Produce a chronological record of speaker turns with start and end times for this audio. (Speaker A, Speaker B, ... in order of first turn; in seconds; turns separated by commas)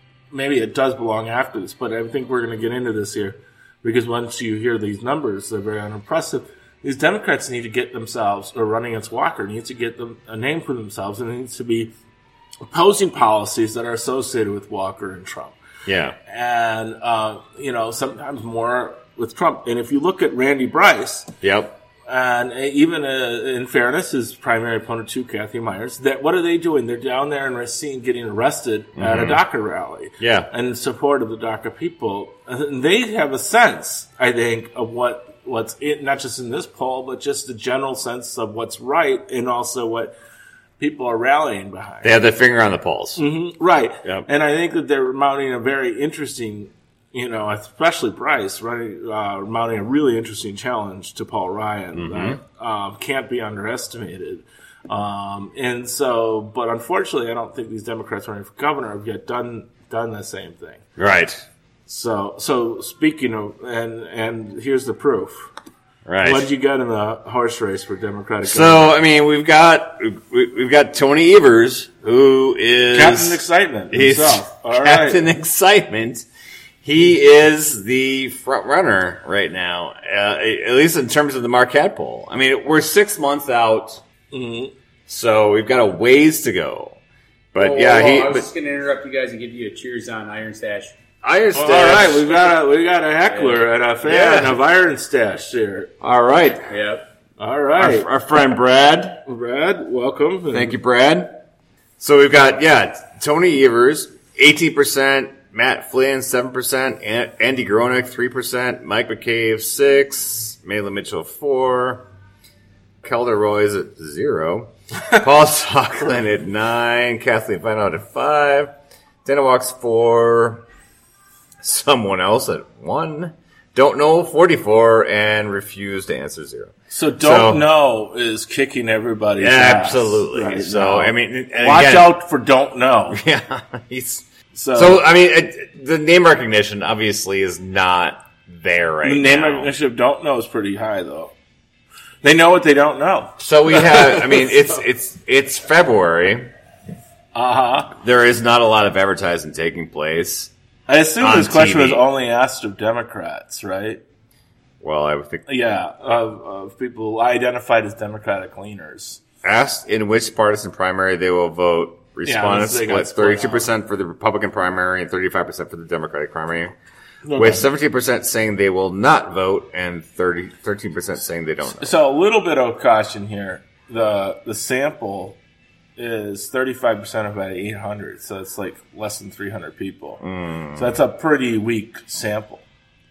Speaker A: 0.3-11.9, Speaker A: 12.7-15.6, Speaker B: 15.9-16.2, Speaker A: 16.3-21.3, Speaker B: 21.4-21.8, Speaker A: 22.1-40.1, Speaker B: 29.0-29.4, Speaker B: 30.2-30.5, Speaker A: 40.8-42.2, Speaker B: 42.0-43.2, Speaker A: 43.2-60.8, Speaker B: 51.9-52.4, Speaker B: 61.0-61.4, Speaker A: 61.9-65.5, Speaker B: 66.1-66.5, Speaker A: 66.2-68.9, Speaker B: 68.4-76.3, Speaker A: 72.9-75.3, Speaker B: 76.8-84.0, Speaker A: 84.3-84.7, Speaker B: 85.1-87.0, Speaker B: 87.5-88.5, Speaker C: 87.6-91.0, Speaker B: 91.2-92.5, Speaker A: 91.5-95.9, Speaker C: 93.3-93.6, Speaker B: 94.0-94.6, Speaker B: 96.0-96.7, Speaker C: 96.7-97.0, Speaker A: 97.4-98.1, Speaker B: 97.8-99.2, Speaker A: 99.3-100.8, Speaker B: 100.5-101.3, Speaker B: 102.0-112.0, Speaker B: 113.0-118.7, Speaker B: 119.2-120.6, Speaker B: 121.6-127.7, Speaker A: 126.9-133.2, Speaker B: 129.4-132.2, Speaker B: 133.1-139.7, Speaker A: 134.5-135.0, Speaker A: 139.0-141.3, Speaker A: 142.2-144.5, Speaker B: 143.4-146.5, Speaker A: 147.3-147.9, Speaker B: 147.9-150.5, Speaker A: 150.9-154.0, Speaker B: 151.2-152.0, Speaker B: 154.8-155.4, Speaker A: 155.5-159.2, Speaker B: 159.4-166.7, Speaker A: 162.2-163.7, Speaker A: 167.2-167.7, Speaker B: 167.3-172.0, Speaker A: 171.7-175.4, Speaker A: 176.0-180.2, Speaker B: 180.2-180.9, Speaker A: 180.8-182.6